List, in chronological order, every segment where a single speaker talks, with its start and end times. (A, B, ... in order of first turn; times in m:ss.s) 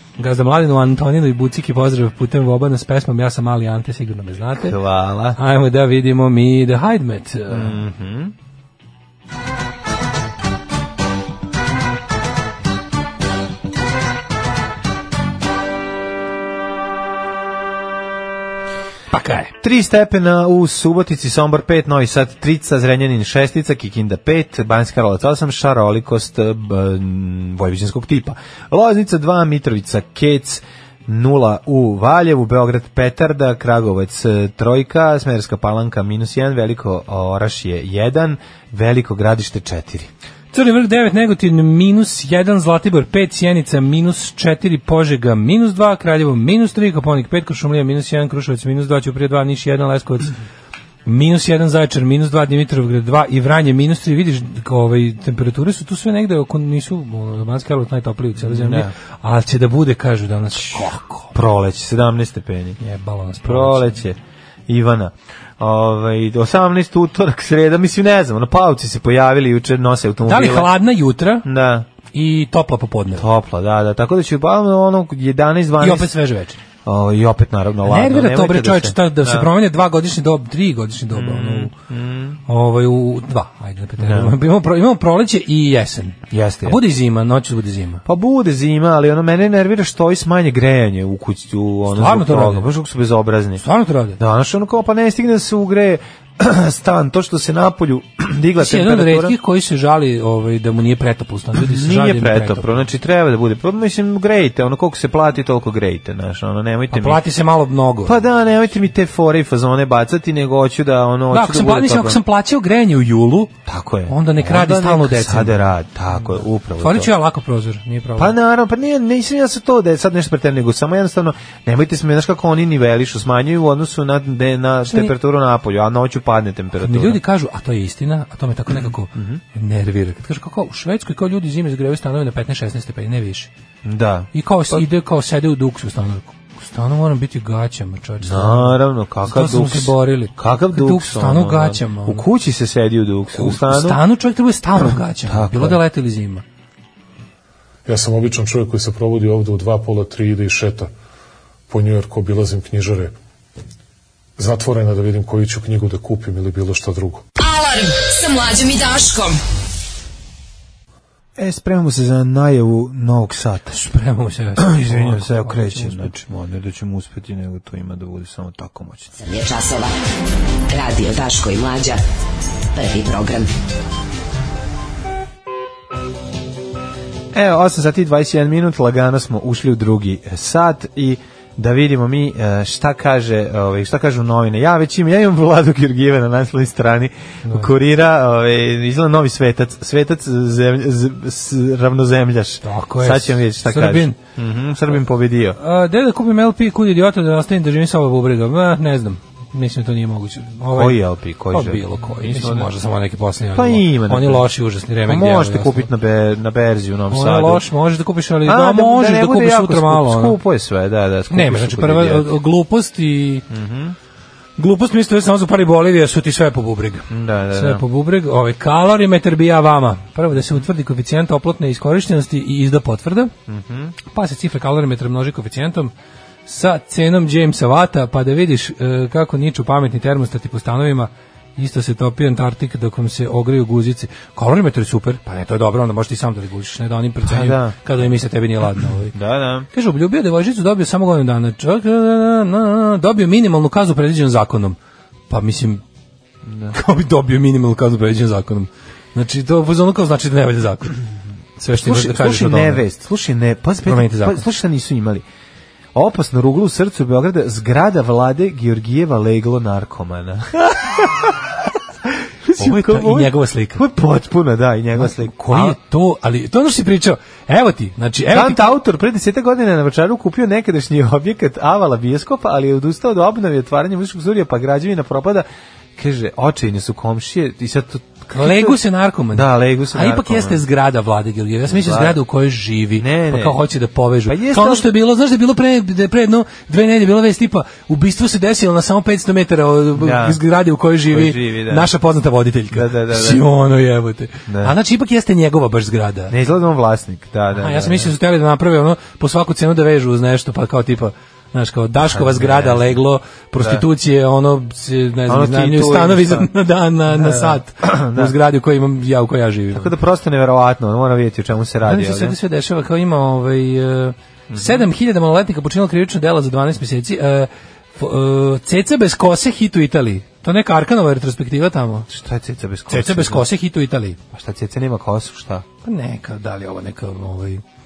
0:00.2-0:04.8 A
0:04.6-0:05.4 B
0:05.4-0:07.8 A
0:07.5-0:08.3 B
0:19.1-0:19.5 A
0:19.6-0:40.1 B
0:40.5-0:50.3 A
0:51.0-1:01.3 A
0:58.4-0:58.9 B
1:01.3-1:02.8 B
1:02.8-1:03.9 A
1:03.4-1:10.7 B
1:10.2-1:11.4 A
1:11.4-1:11.9 B
1:12.1-1:13.3 A
1:13.2-1:16.1 B
1:15.8-1:16.6 A
1:16.8-1:19.5 B
1:17.8-1:21.7 A
1:21.1-1:22.4 B
1:22.5-1:28.0 A
1:24.0-1:24.4 B
1:26.3-1:26.8 B
1:28.0-1:33.6 B
1:31.9-1:32.7 A
1:33.6-1:34.2 A
1:34.2-1:39.3 B
1:38.6-1:42.8 A
1:41.5-1:47.2 B
1:46.9-1:48.2 A
1:48.0-1:52.2 B
1:51.3-1:53.5 A
1:53.6-1:57.1 B
1:54.1-1:55.7 A
1:56.8-1:58.3 A
1:58.2-2:07.2 B
2:06.8-2:13.5 A
2:09.1-2:09.4 B
2:13.8-2:14.8 B
2:14.3-2:22.2 A
2:18.2-2:24.0 B
2:23.4-2:26.4 A
2:24.8-2:25.8 B
2:27.8-2:30.9 C
2:31.7-2:33.1 C
2:34.4-2:37.2 C
2:37.4-2:39.4 D
2:41.4-2:43.8 B
2:43.7-2:46.1 A
2:44.6-2:49.1 B
2:49.2-2:49.9 E
2:50.7-2:52.0 E
2:52.7-2:53.5 E
2:57.3-3:15.6 B
3:07.4-3:07.7 A
3:12.6-3:14.2 A
3:15.6-3:21.0 A
3:20.7-3:22.7 B
3:21.5-3:25.9 A
3:23.5-3:24.5 B
3:25.0-3:27.6 B
3:27.1-3:30.4 A
3:28.4-3:32.3 B
3:31.3-3:33.4 A
3:33.5-3:34.0 B
3:34.6-3:43.3 A
3:37.1-3:37.8 B
3:43.5-3:44.0 B
3:44.0-3:45.9 A
3:46.4-3:59.1 A
3:57.2-3:57.8 B
3:59.1-3:59.7 B
3:59.7-4:04.8 A
4:05.3-4:05.8 A
4:06.4-4:06.8 B
4:06.7-4:11.0 A
4:11.6-4:12.8 A
4:11.7-4:15.2 B
4:13.8-4:14.4 A
4:15.9-4:21.4 B
4:22.5-4:25.8 B
4:22.5-4:23.8 A
4:25.0-4:28.7 A
4:28.3-4:38.8 B
4:38.3-4:56.3 A
4:39.3-4:40.6 B
4:41.7-4:42.2 B
4:43.0-4:43.6 B
4:44.3-4:44.9 B
4:50.0-4:50.4 B
4:51.1-4:51.9 B
4:52.7-4:53.4 B
4:54.5-4:54.7 B
4:56.3-4:58.1 B
4:57.5-5:09.9 A
5:02.0-5:03.0 B
5:03.6-5:03.8 B
5:05.3-5:06.5 B
5:07.1-5:08.3 B
5:09.7-5:12.4 B
5:11.8-5:22.1 A
5:14.5-5:14.8 B
5:22.1-5:23.4 B
5:22.9-5:24.2 A
5:24.3-5:25.6 B
5:25.8-5:27.6 A